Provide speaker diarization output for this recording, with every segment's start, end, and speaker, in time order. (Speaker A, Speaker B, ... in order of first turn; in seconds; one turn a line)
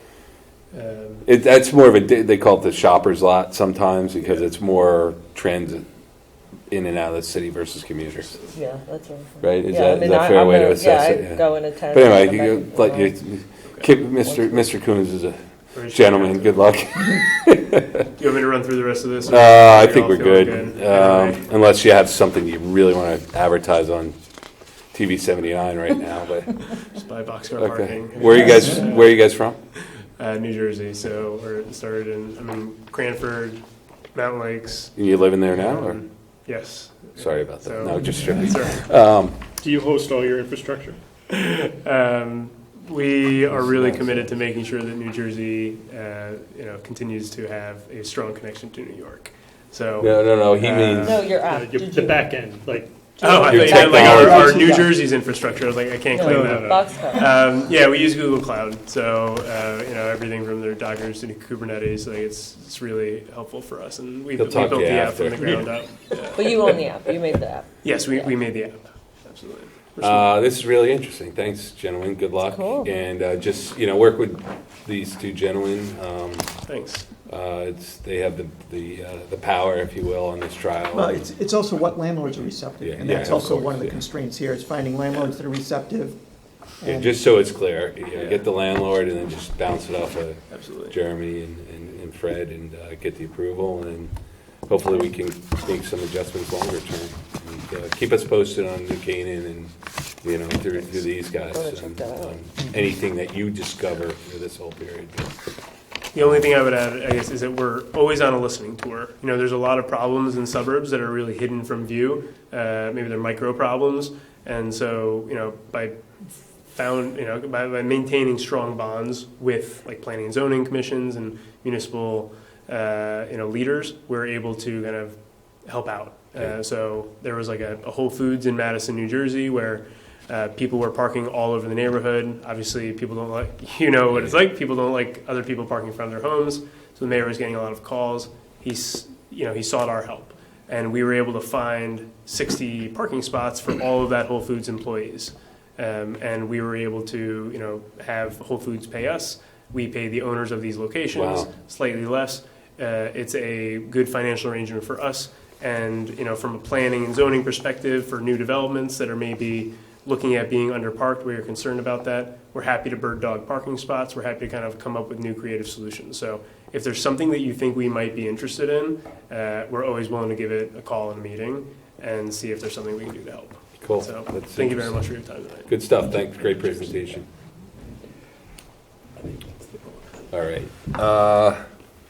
Speaker A: 0.7-1.2
Speaker B: 1.2-5.8
Speaker B: 6.7-8.4
Speaker C: 8.5-13.2
Speaker B: 9.4-18.0
Speaker C: 14.2-14.8
Speaker A: 15.7-16.8
Speaker A: 18.2-21.4
Speaker B: 19.3-24.1
Speaker B: 24.9-26.6
Speaker A: 26.7-29.2
Speaker B: 27.6-29.6
Speaker A: 30.2-33.6
Speaker A: 34.1-34.9
Speaker B: 35.0-36.0
Speaker A: 35.5-38.8
Speaker B: 37.1-39.4
Speaker D: 39.6-41.0
Speaker A: 41.3-51.2
Speaker B: 43.5-44.3
Speaker B: 50.0-51.2
Speaker D: 50.6-53.3
Speaker C: 51.0-52.4
Speaker A: 53.2-66.8
Speaker E: 53.2-55.0
Speaker B: 53.3-54.6
Speaker C: 53.5-54.3
Speaker C: 56.1-57.3
Speaker E: 56.2-56.7
Speaker B: 64.4-65.6
Speaker C: 66.3-68.3
Speaker A: 67.8-70.3
Speaker B: 70.0-76.5
Speaker C: 72.4-72.9
Speaker A: 76.7-77.1
Speaker B: 77.3-81.2
Speaker E: 80.9-86.2
Speaker B: 82.8-84.0
Speaker E: 86.8-87.1
Speaker B: 86.8-94.1
Speaker A: 88.1-88.4
Speaker A: 90.5-90.9
Speaker B: 94.7-99.7
Speaker B: 100.2-105.3
Speaker C: 101.5-102.4
Speaker A: 106.1-116.0
Speaker A: 116.7-175.7
Speaker B: 134.1-134.4
Speaker B: 151.1-151.5
Speaker B: 173.8-175.0
Speaker B: 175.7-177.3
Speaker B: 180.3-181.6